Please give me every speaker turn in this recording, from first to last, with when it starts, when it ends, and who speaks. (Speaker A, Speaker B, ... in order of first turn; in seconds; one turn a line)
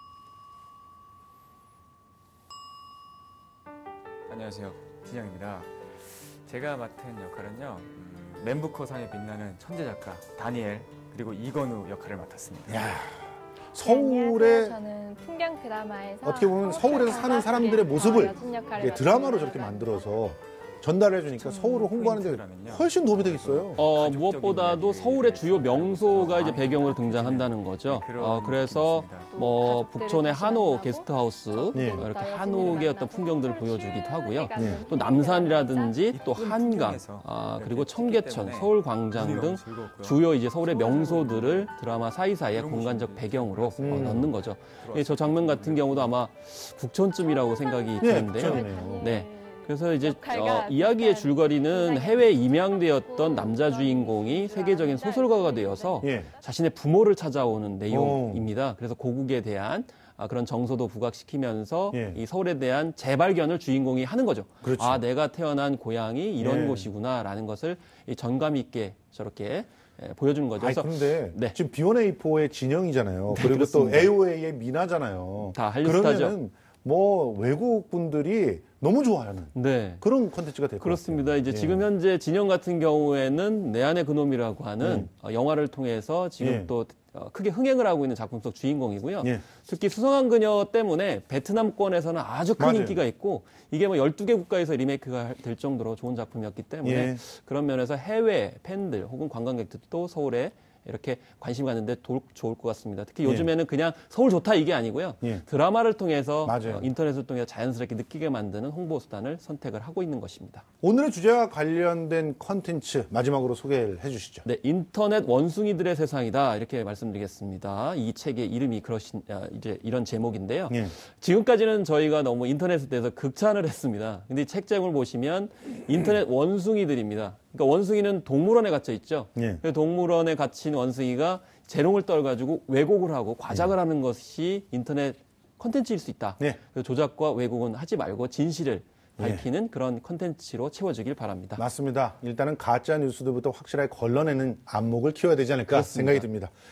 Speaker A: 4.3-12.9
Speaker B: 12.7-14.8
Speaker C: 13.8-20.3
Speaker B: 16.2-23.8
Speaker C: 21.4-21.8
Speaker A: 21.7-29.4
Speaker D: 23.8-71.6
Speaker C: 29.3-36.1
Speaker B: 31.7-32.1
Speaker B: 34.5-34.8
Speaker A: 36.1-41.7
Speaker A: 42.5-46.2
Speaker B: 43.8-44.3
Speaker C: 47.2-56.4
Speaker B: 48.0-48.9
Speaker B: 56.0-56.3
Speaker B: 57.9-58.5
Speaker B: 61.9-62.2
Speaker B: 64.6-65.0
Speaker B: 66.4-66.9
Speaker B: 70.6-81.9
Speaker D: 73.3-74.1
Speaker D: 75.5-76.4
Speaker D: 79.5-80.0
Speaker D: 80.8-110.7
Speaker B: 84.8-85.1
Speaker B: 86.4-86.7
Speaker B: 92.6-93.0
Speaker B: 96.8-97.2
Speaker B: 106.5-106.9
Speaker B: 110.8-114.5
Speaker D: 114.4-141.6
Speaker B: 129.4-129.6
Speaker B: 139.2-139.4
Speaker B: 141.6-146.5
Speaker D: 145.7-146.3